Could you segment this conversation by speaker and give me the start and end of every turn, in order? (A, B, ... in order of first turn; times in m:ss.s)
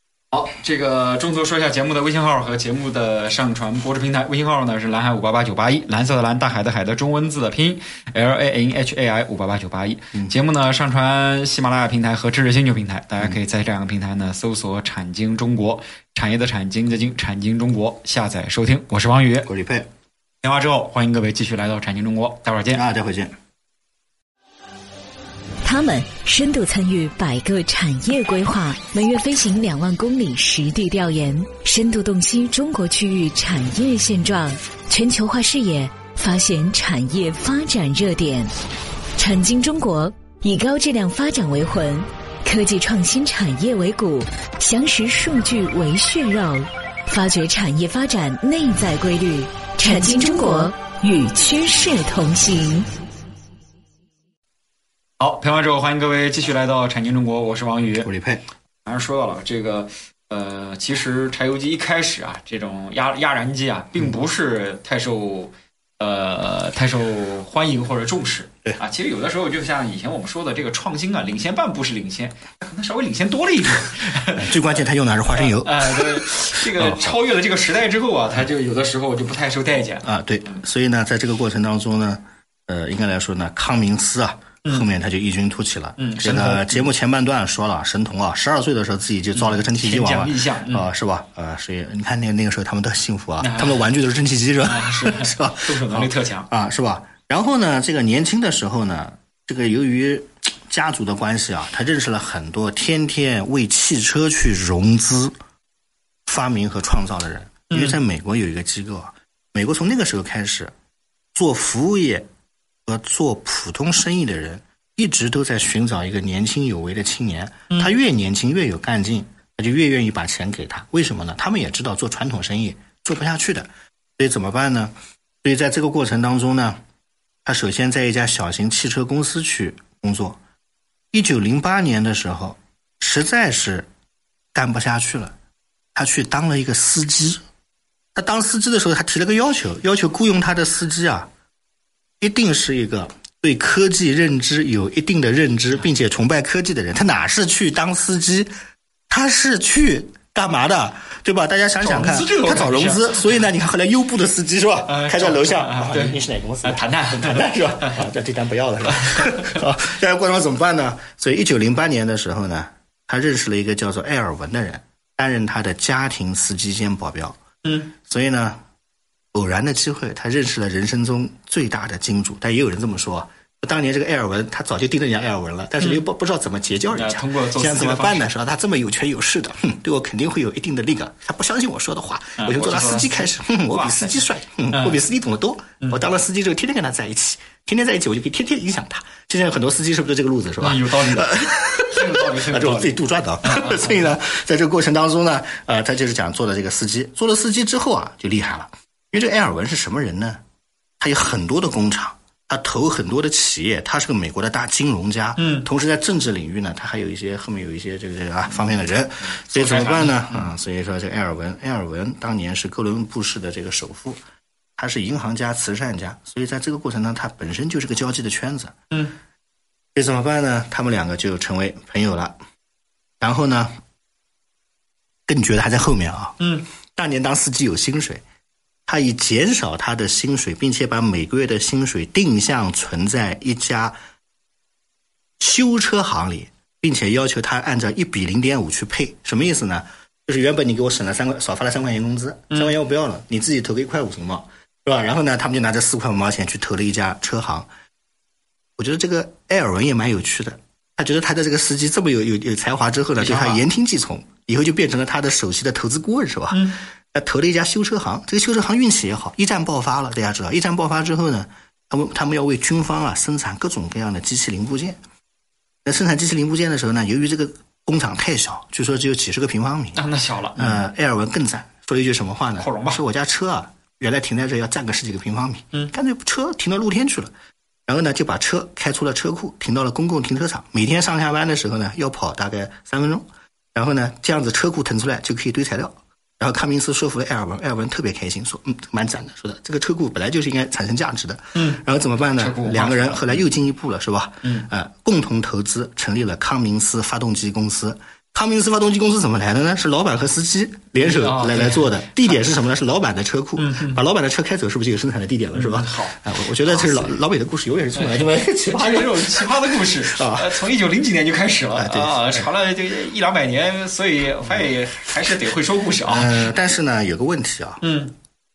0:00.3-0:19.5 A
0:19.4-0:19.9 B
0:20.4-0:22.8 A
0:22.7-0:23.3 B
0:25.6-0:38.5 C
0:39.2-0:52.9 C
0:55.2-0:58.1 A
0:58.0-0:58.4 B
0:58.8-1:14.8 A
1:14.4-1:17.2 B
1:15.3-1:20.6 A
1:20.0-1:45.3 B
1:26.0-1:26.9 A
1:29.3-1:30.9 A
1:33.4-1:33.8 A
1:34.6-1:36.5 A
1:46.2-1:50.7 B
1:47.7-1:48.0 A
1:51.3-1:52.3 B
1:52.8-2:06.8 B
2:07.4-2:10.4 B
2:11.1-2:13.9 B
2:14.5-2:15.4 B
2:15.9-2:17.4 B
2:18.1-2:21.3 B
2:22.2-2:28.5 B
2:29.1-2:47.4 B
2:31.8-2:33.4 A
2:34.9-2:38.0 A
2:38.9-2:39.5 A
2:47.6-2:47.9 A
2:48.0-2:48.6 B
2:49.3-3:20.4 B
2:56.9-2:58.3 A
3:02.4-3:05.0 A
3:10.6-3:14.1 A
3:21.0-3:34.2 B
3:25.4-3:25.6 A
3:29.2-3:30.5 A
3:34.8-3:38.7 B
3:39.9-3:42.3 B
3:43.2-3:43.7 B
3:45.3-3:48.2 B
3:46.4-3:46.6 A
3:48.9-3:54.0 B
3:55.4-4:07.7 B
4:08.8-4:25.0 B
4:13.2-4:13.6 A
4:25.8-4:30.0 B
4:29.9-4:30.8 A
4:30.6-4:37.3 B
4:32.6-4:33.0 A
4:37.9-5:10.6 B
4:51.5-4:51.8 A
4:52.4-4:53.5 A
5:01.0-5:02.4 A
5:03.6-5:04.0 A
5:05.5-5:07.2 A
5:08.0-5:16.4 A
5:11.8-5:12.4 B
5:16.0-5:17.8 B
5:17.8-5:18.1 A